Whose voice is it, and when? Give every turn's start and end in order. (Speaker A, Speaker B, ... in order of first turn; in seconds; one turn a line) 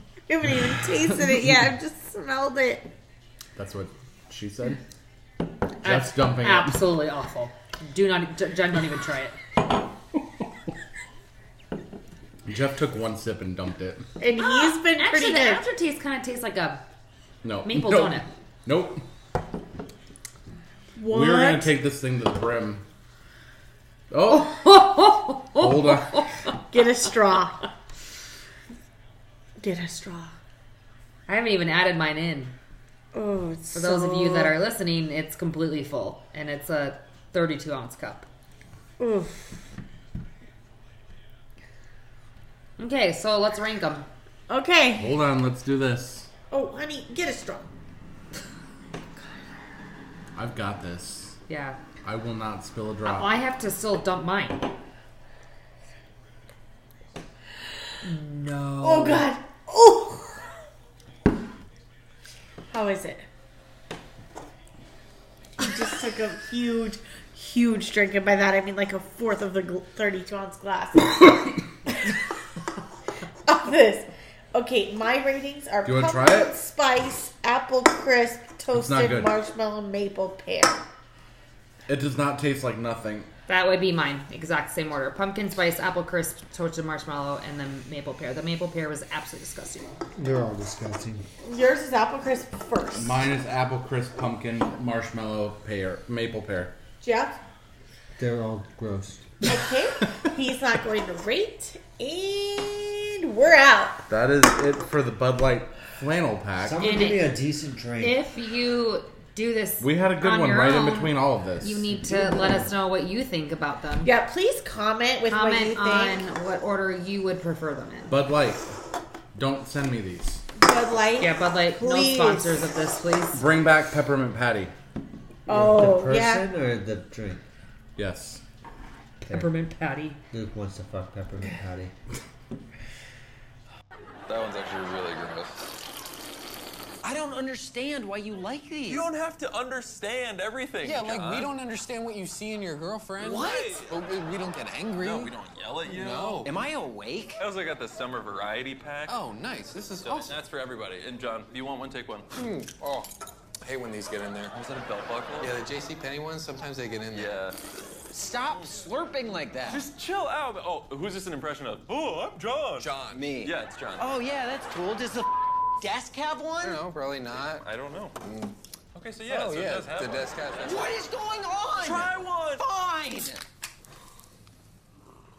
Speaker A: 0.3-2.9
Speaker B: 3.6-4.8
Speaker B: 5.8-6.8
Speaker C: 5.8-9.4
Speaker B: 12.4-14.1
Speaker A: 14.2-15.6
Speaker C: 14.3-16.8
Speaker B: 17.4-19.0
Speaker C: 17.6-18.3
Speaker A: 21.0-21.7
Speaker B: 21.1-22.8
Speaker B: 24.1-25.0
Speaker C: 24.3-26.3
Speaker B: 25.5-26.3
Speaker A: 26.7-27.7
Speaker A: 29.6-30.3
Speaker C: 31.3-32.5
Speaker A: 33.1-34.6
Speaker C: 33.7-38.3
Speaker A: 39.0-39.6
Speaker C: 42.8-44.1
Speaker A: 44.5-45.1
Speaker B: 45.0-46.3
Speaker A: 46.5-47.7
Speaker B: 50.3-51.4
Speaker C: 51.5-51.8
Speaker B: 52.0-53.3
Speaker C: 53.0-54.6
Speaker C: 58.0-59.3
Speaker A: 58.8-60.4
Speaker A: 62.7-63.2
Speaker A: 65.6-72.2
Speaker A: 73.5-80.8
Speaker B: 75.8-76.5
Speaker B: 78.7-79.3
Speaker B: 81.9-83.3
Speaker C: 83.5-90.0
Speaker D: 90.2-91.2
Speaker A: 91.4-93.2
Speaker B: 92.9-96.7
Speaker A: 97.0-97.4
Speaker D: 98.2-99.3
Speaker A: 99.4-104.0
Speaker B: 104.1-106.8
Speaker D: 106.6-108.2
Speaker C: 106.8-107.3
Speaker C: 108.0-114.1
Speaker B: 109.8-111.9
Speaker D: 112.0-112.7
Speaker A: 114.0-116.2
Speaker C: 115.3-118.2
Speaker B: 118.1-118.8
Speaker B: 119.3-120.4
Speaker A: 120.6-122.6
Speaker C: 121.2-123.4
Speaker B: 123.3-124.7
Speaker A: 125.5-126.5
Speaker D: 125.5-127.4
Speaker B: 128.0-128.4
Speaker C: 129.2-130.2
Speaker D: 129.3-129.5
Speaker D: 130.3-131.9
Speaker E: 134.3-135.7
Speaker F: 137.0-139.1
Speaker E: 138.8-141.5
Speaker G: 140.8-145.3
Speaker F: 143.2-143.8
Speaker E: 143.2-143.9
Speaker E: 145.0-146.5
Speaker G: 145.8-146.5
Speaker F: 146.4-147.4
Speaker E: 147.4-149.2
Speaker G: 149.1-150.3
Speaker E: 150.0-152.3
Speaker G: 152.3-153.1
Speaker G: 153.6-154.5
Speaker E: 154.5-155.6
Speaker G: 155.4-157.3
Speaker E: 157.1-157.6
Speaker F: 158.1-159.8
Speaker E: 158.5-158.8
Speaker E: 159.7-164.1
Speaker G: 162.8-163.2
Speaker F: 163.1-166.8
Speaker G: 166.6-167.6
Speaker E: 167.4-168.2
Speaker G: 168.2-168.5
Speaker E: 168.9-170.9
Speaker G: 169.2-170.8
Speaker F: 170.6-173.4
Speaker E: 171.8-172.7